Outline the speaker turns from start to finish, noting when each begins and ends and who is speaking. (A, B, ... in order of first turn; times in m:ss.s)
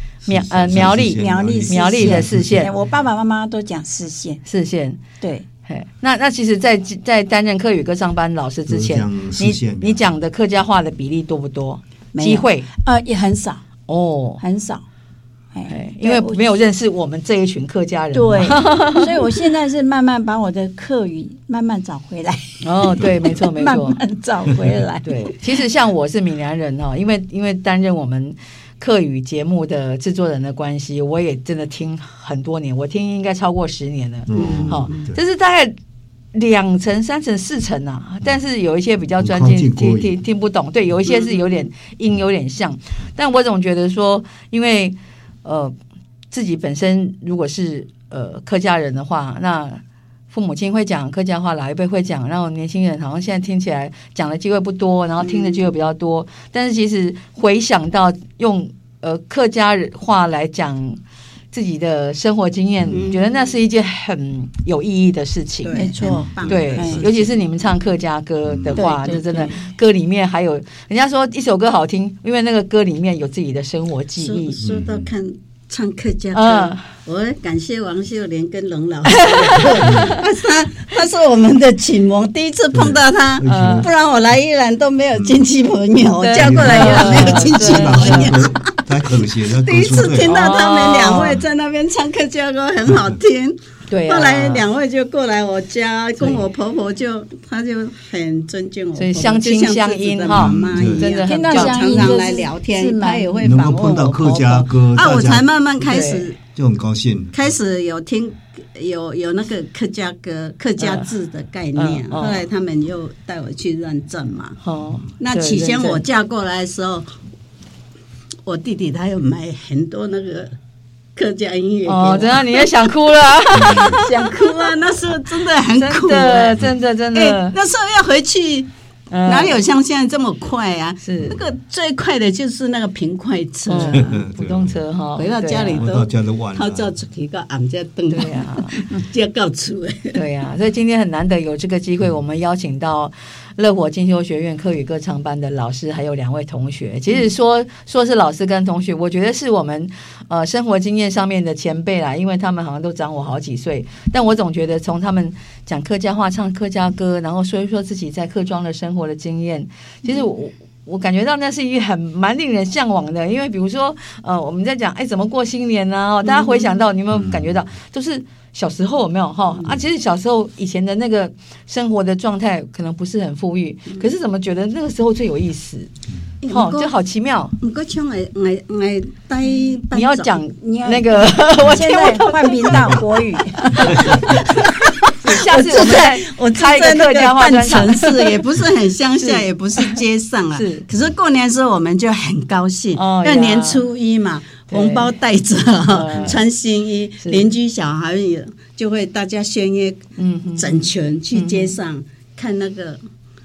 0:00.2-0:02.8 A
0:00.2-0:02.7 B
0:01.1-0:04.4 C
0:04.4-0:05.0 B
0:05.2-0:05.4 C
0:05.6-0:12.7 B
0:08.7-0:10.1 A
0:12.1-0:13.6 C
0:13.9-0:14.4 B
0:14.4-0:14.8 C
0:15.5-0:16.5 C
0:15.7-0:19.2 B
0:18.1-0:25.6 C
0:22.6-0:24.0 B
0:25.0-0:35.7 B
0:34.3-0:35.2 A
0:34.3-0:35.1 D
0:36.3-0:45.7 B
0:39.2-0:40.2 A
0:41.1-0:41.7 D
0:46.3-1:01.0 B
0:55.2-0:55.7 D
1:01.5-1:05.9 B
1:02.8-1:03.1 A
1:02.9-1:03.4 D
1:05.6-1:07.7 D
1:05.7-1:07.0 C
1:06.4-1:06.9 A
1:06.4-1:14.6 B
1:08.4-1:08.9 A
1:08.7-1:09.7 C
1:14.2-1:28.7 D
1:14.6-1:15.1 A
1:16.3-1:16.8 B
1:19.1-1:20.1 B
1:19.8-1:20.2 A
1:22.7-1:23.9 A
1:23.4-1:23.9 B
1:25.1-1:25.4 A
1:26.2-1:28.3 B
1:26.3-1:30.3 A
1:29.4-1:44.4 D
1:30.2-1:31.4 B
1:33.9-1:34.6 B
1:36.2-1:36.4 B
1:38.9-1:42.0 B
1:40.3-1:41.0 A
1:41.2-1:43.5 C
1:43.4-1:45.4 A
1:44.1-1:44.7 B
1:44.9-1:46.4 D
1:45.8-1:46.3 B
1:46.5-1:47.3 A
1:47.3-1:54.6 D
1:50.8-1:51.1 B
1:51.8-1:52.4 B
1:54.6-1:56.0 B
1:55.2-1:57.1 D
1:58.4-2:00.5 D
2:01.2-2:02.7 D
2:01.8-2:04.5 B
2:03.5-2:04.0 A
2:03.6-2:06.6 D
2:05.7-2:07.5 B
2:07.1-2:08.7 D
2:09.1-2:09.6 B
2:09.2-2:14.2 D
2:11.0-2:11.4 B
2:13.7-2:15.9 B
2:13.9-2:14.8 A
2:15.2-2:20.2 D
2:15.8-2:16.9 A
2:18.1-2:18.7 B
2:20.1-2:55.9 B
2:46.2-2:46.8 D
2:47.1-2:47.6 A
2:56.4-2:57.0 D
2:56.5-2:57.5 B
2:57.6-3:00.4 D
2:59.9-3:03.0 B
3:00.6-3:04.4 C
3:03.7-3:04.0 B
3:03.9-3:04.8 D
3:05.2-3:08.3 B
3:05.5-3:20.0 D
3:09.2-3:09.9 B
3:10.5-3:10.8 B
3:12.9-3:13.8 B
3:14.7-3:15.1 B
3:15.9-3:16.4 B
3:20.2-3:21.8 B
3:20.5-3:23.0 D